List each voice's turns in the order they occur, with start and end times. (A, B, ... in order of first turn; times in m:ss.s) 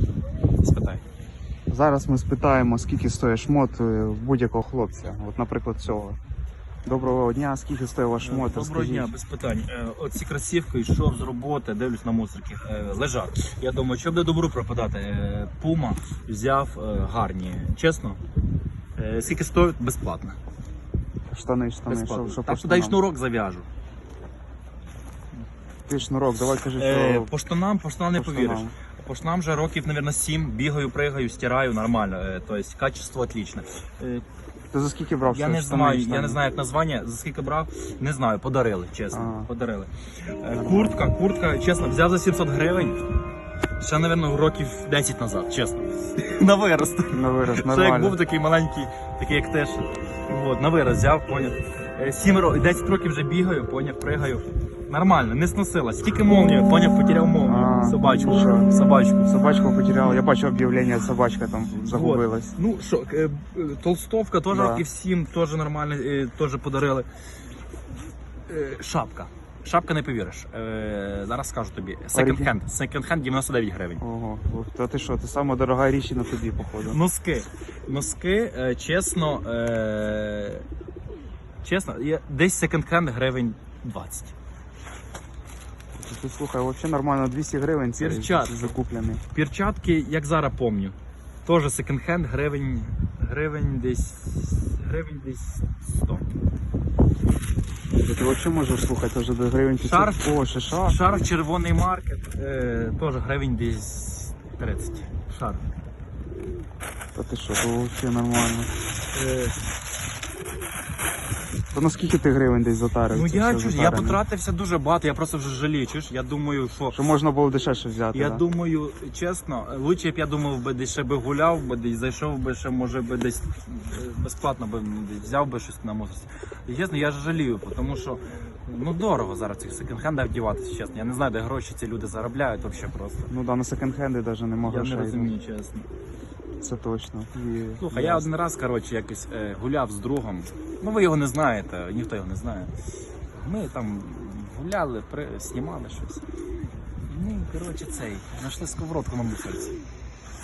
0:00.6-0:01.0 A
0:01.7-0:06.2 B
0:06.8-0:09.1 B
0:08.2-0:18.2 A
0:19.0-0:20.4 A
0:21.3-0:23.0 B
0:21.9-0:23.7 A
0:25.9-0:27.3 B
0:26.7-0:34.2 A
0:28.2-0:28.8 B
0:34.7-0:36.4 B
0:35.2-0:43.0 A
0:39.1-0:39.5 B
0:40.5-0:41.0 B
0:43.8-0:59.3 A
0:47.1-0:48.2 B
0:57.4-0:58.7 B
0:59.2-1:02.5 B
1:01.9-1:07.1 A
1:04.5-1:04.8 B
1:08.5-1:14.0 A
1:12.1-1:12.5 B
1:14.0-1:17.0 B
1:16.8-1:20.7 A
1:21.6-1:24.3 A
1:26.0-1:29.2 B
1:28.0-1:28.7 A
1:29.3-1:36.3 A
1:37.9-1:41.3 B
1:39.8-1:45.6 A
1:47.2-1:48.7 B
1:49.1-1:49.6 A
1:51.7-1:54.2 B
1:53.1-1:57.0 A
1:56.9-1:58.4 B
1:58.1-2:13.3 A
2:13.3-2:15.3 B
2:14.6-2:15.9 A
2:16.6-2:18.3 B
2:17.8-2:22.7 A
2:23.3-2:26.2 A
2:27.1-2:29.8 A